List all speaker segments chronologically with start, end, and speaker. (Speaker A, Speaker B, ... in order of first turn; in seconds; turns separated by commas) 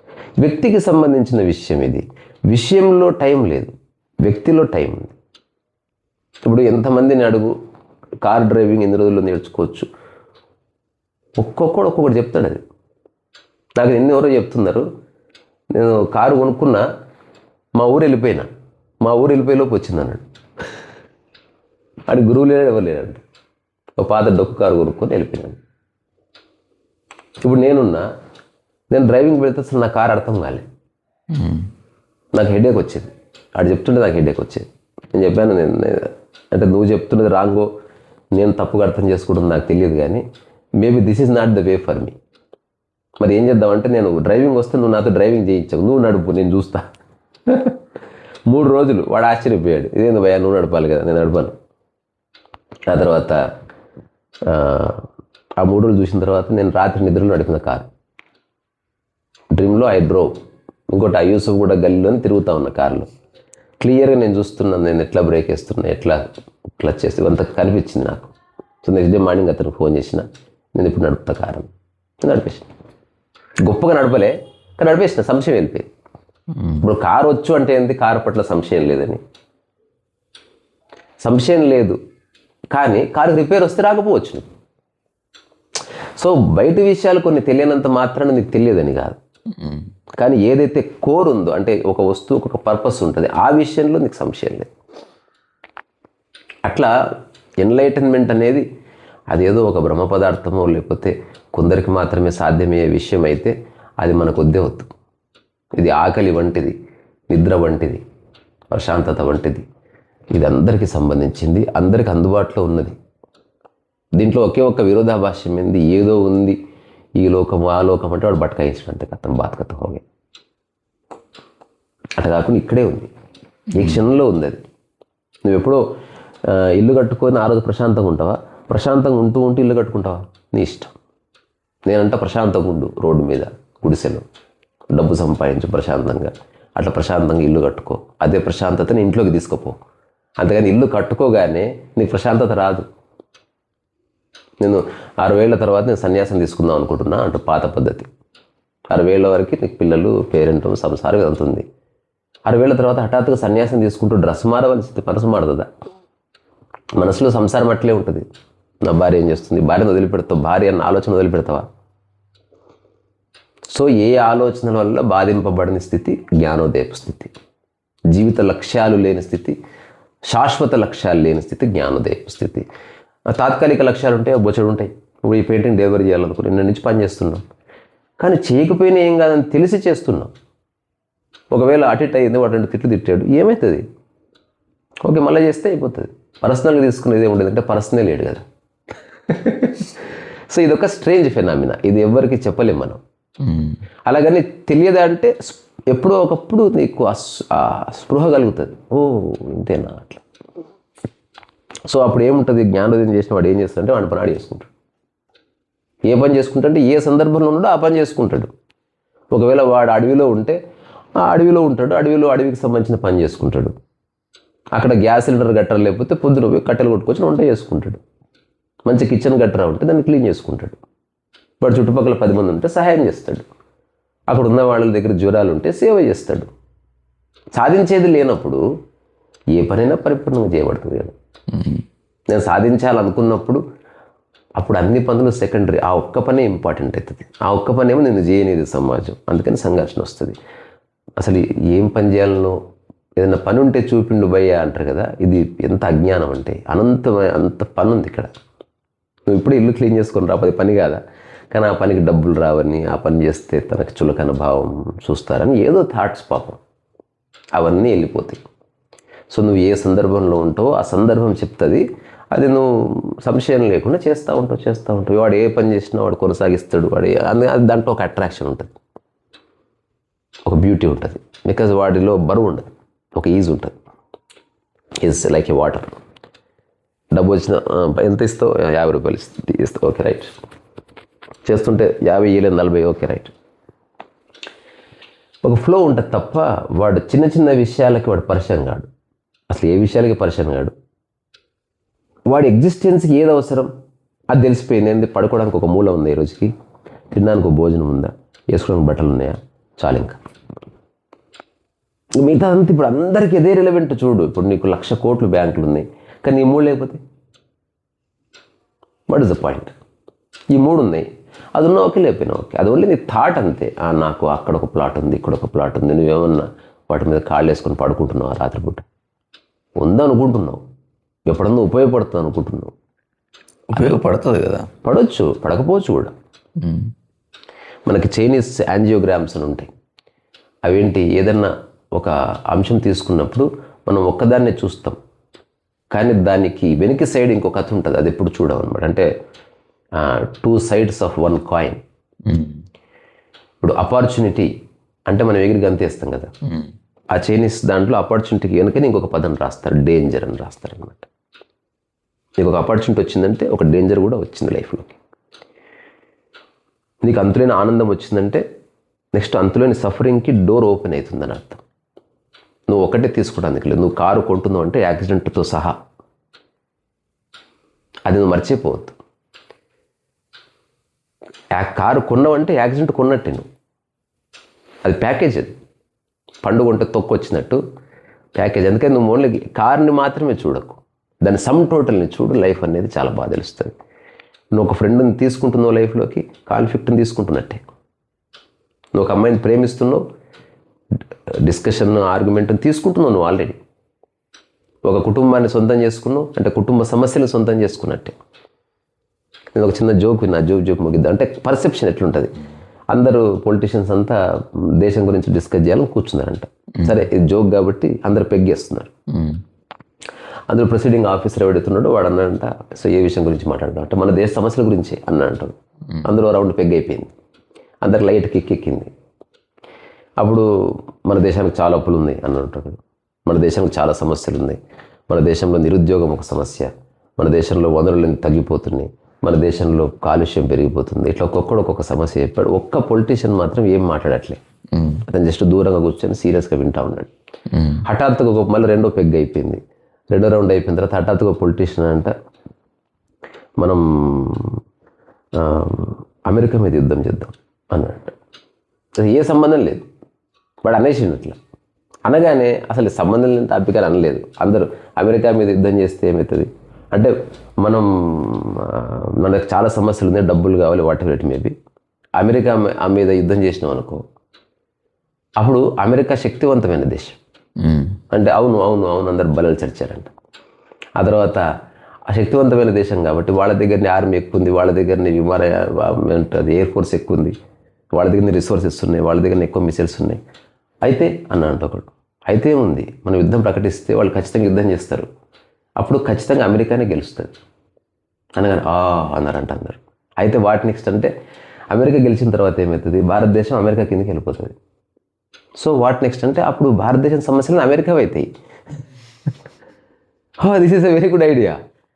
Speaker A: 0.4-3.7, Speaker A: 4.2-5.2, Speaker A: 6.5-7.5, Speaker A: 8.2-9.9, Speaker A: 11.4-12.6, Speaker A: 13.8-14.9, Speaker A: 15.7-16.8, Speaker A: 17.8-18.5, Speaker A: 19.0-20.2, Speaker A: 22.1-23.2, Speaker A: 24.0-25.6, Speaker A: 27.4-28.1, Speaker A: 28.9-30.6, Speaker B: 31.3-31.7, Speaker A: 32.3-37.7, Speaker A: 38.4-40.2, Speaker A: 40.8-42.1, Speaker A: 43.2-46.9, Speaker A: 47.5-47.8, Speaker A: 48.5-51.5, Speaker A: 52.9-53.4, Speaker A: 54.5-55.0, Speaker A: 55.6-57.9, Speaker A: 59.5-60.4, Speaker A: 60.9-63.1, Speaker A: 63.8-66.2, Speaker A: 66.8-68.3, Speaker A: 68.8-71.7, Speaker A: 72.2-72.7, Speaker A: 73.6-75.9, Speaker B: 76.5-76.8, Speaker A: 76.8-79.2, Speaker A: 81.2-82.0, Speaker A: 82.7-84.5, Speaker A: 86.2-89.2, Speaker B: 89.5-89.9, Speaker A: 90.2-94.7, Speaker A: 96.7-96.9, Speaker A: 97.6-98.6, Speaker A: 99.3-104.9, Speaker A: 105.8-106.7, Speaker A: 107.3-108.0, Speaker A: 108.7-109.6, Speaker A: 110.3-113.0, Speaker A: 114.2-116.6, Speaker A: 117.2-120.0, Speaker A: 122.2-123.1, Speaker B: 123.7-124.0, Speaker A: 123.8-124.6, Speaker A: 125.5-125.8, Speaker A: 126.5-130.9, Speaker A: 131.9-134.2, Speaker A: 134.9-139.8, Speaker A: 140.4-142.9, Speaker A: 144.6-148.1, Speaker A: 148.9-151.6, Speaker A: 152.5-155.7, Speaker A: 157.0-158.2, Speaker A: 158.8-161.6, Speaker A: 163.7-167.3, Speaker A: 168.1-169.6, Speaker A: 170.3-172.7, Speaker A: 173.3-177.4, Speaker A: 178.2-180.3, Speaker A: 181.5-183.8, Speaker A: 185.1-188.4, Speaker A: 189.3-193.0, Speaker B: 193.4-193.8, Speaker A: 194.1-200.2, Speaker A: 201.9-204.7, Speaker A: 206.1-208.5, Speaker A: 209.3-210.6, Speaker A: 211.2-213.7, Speaker A: 214.8-218.0, Speaker A: 218.9-220.8, Speaker A: 221.6-223.5, Speaker A: 224.3-226.5, Speaker A: 227.5-228.6, Speaker A: 229.5-231.1, Speaker B: 231.5-231.8, Speaker A: 232.3-233.6, Speaker A: 234.6-240.4, Speaker A: 241.2-242.6, Speaker A: 243.2-248.3, Speaker A: 249.3-251.0, Speaker A: 251.5-256.6, Speaker A: 257.6-258.4, Speaker A: 259.3-268.8, Speaker A: 270.5-273.8, Speaker A: 275.0-276.0, Speaker A: 277.1-280.3, Speaker A: 281.4-283.3, Speaker A: 285.4-288.9, Speaker A: 289.5-290.7, Speaker A: 292.3-293.7, Speaker A: 294.3-296.5, Speaker A: 297.1-300.2, Speaker A: 302.2-307.0, Speaker A: 309.1-309.7, Speaker A: 310.5-318.8, Speaker A: 319.8-320.6, Speaker A: 321.3-322.7, Speaker B: 323.7-324.7, Speaker A: 324.8-326.1, Speaker B: 326.6-326.9, Speaker A: 327.9-329.7, Speaker A: 330.6-335.0, Speaker A: 335.9-339.1, Speaker A: 340.0-341.8, Speaker B: 342.2-342.6, Speaker A: 343.6-344.5, Speaker A: 345.1-346.3, Speaker B: 346.4-346.7, Speaker A: 347.1-351.1, Speaker A: 352.4-355.0, Speaker A: 357.0-358.4, Speaker A: 359.1-361.6, Speaker A: 362.7-365.8, Speaker A: 368.1-369.0, Speaker A: 371.5-373.5, Speaker A: 374.9-375.6, Speaker A: 376.4-377.6, Speaker A: 378.4-383.7, Speaker A: 384.5-387.6, Speaker A: 388.9-390.0, Speaker A: 391.4-393.6, Speaker A: 394.9-398.1, Speaker A: 399.6-402.3, Speaker A: 402.9-404.2, Speaker A: 404.8-408.9, Speaker B: 409.1-409.4, Speaker A: 410.5-415.5, Speaker A: 416.1-417.1, Speaker A: 417.8-418.9, Speaker A: 420.2-424.6, Speaker A: 425.1-434.4, Speaker B: 434.7-435.0, Speaker A: 435.1-437.1, Speaker B: 437.5-437.9, Speaker A: 437.9-439.6, Speaker A: 440.1-442.1, Speaker A: 443.6-444.6, Speaker A: 445.4-448.1, Speaker A: 449.0-449.9, Speaker A: 450.6-451.4, Speaker A: 452.1-461.5, Speaker A: 462.2-464.0, Speaker A: 465.4-467.2, Speaker B: 467.6-468.0, Speaker A: 468.1-470.1, Speaker A: 471.0-471.5, Speaker A: 472.1-477.3, Speaker A: 478.0-480.2, Speaker A: 480.9-485.1, Speaker A: 485.8-487.3, Speaker A: 488.4-491.1, Speaker A: 491.7-494.5, Speaker A: 495.6-498.3, Speaker A: 500.4-501.6